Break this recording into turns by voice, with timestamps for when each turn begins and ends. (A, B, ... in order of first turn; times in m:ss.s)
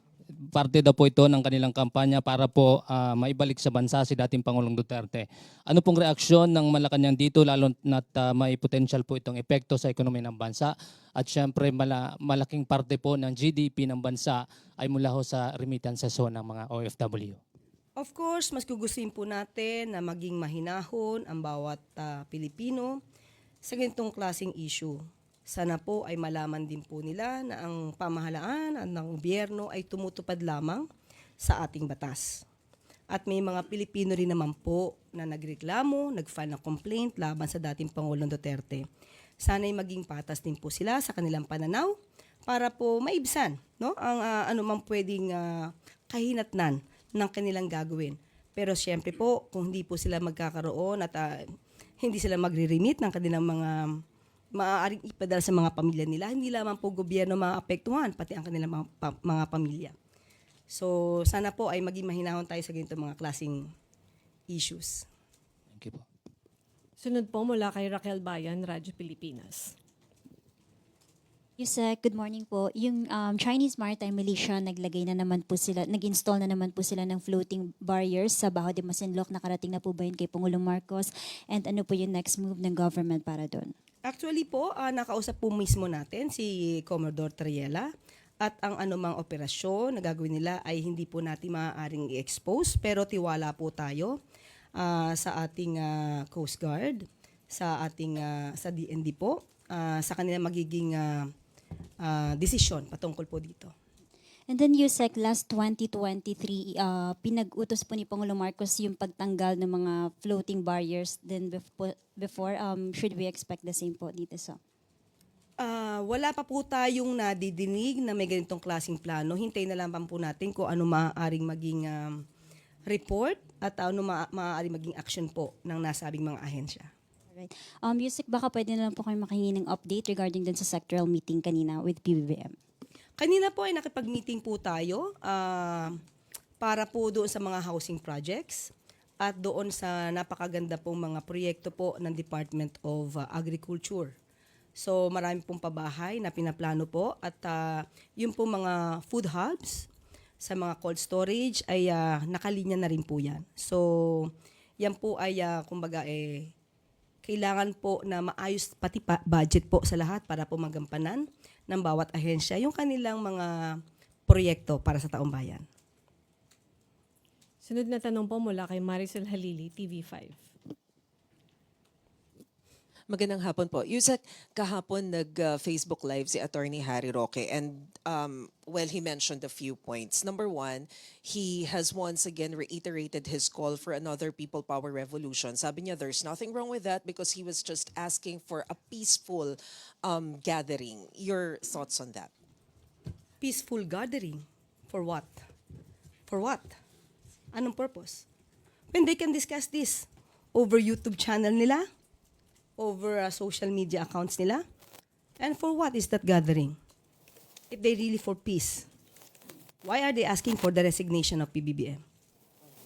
0:00.5-0:17.4 A
0:18.0-0:23.0 B
0:23.6-0:30.9 B
0:31.4-0:32.4 B
0:33.1-0:38.9 B
0:39.4-0:42.0 B
0:42.5-0:51.4 B
0:52.0-0:54.0 B
0:54.5-1:00.0 B
1:00.7-1:03.7 B
1:04.5-1:05.1 B
1:05.8-1:06.0 A
1:07.0-1:09.7 C
1:11.6-1:23.7 D
1:24.1-1:34.2 B
1:34.8-1:41.3 B
1:42.0-1:43.7 B
1:44.5-1:54.6 D
1:55.6-2:02.2 B
2:02.9-2:06.9 B
2:07.3-2:12.6 D
2:13.2-2:16.0 B
2:16.6-2:24.2 B
2:24.8-2:29.9 B
2:30.4-2:36.5 B
2:37.2-2:45.6 B
2:47.6-2:50.4 C
2:53.1-3:12.3 E
3:13.4-3:15.4 B
3:16.3-3:16.8 B
3:17.5-3:18.2 B
3:18.9-3:21.8 B
3:22.8-3:24.6 B
3:25.4-3:26.8 B
3:27.7-3:28.9 B
3:29.8-3:32.0 B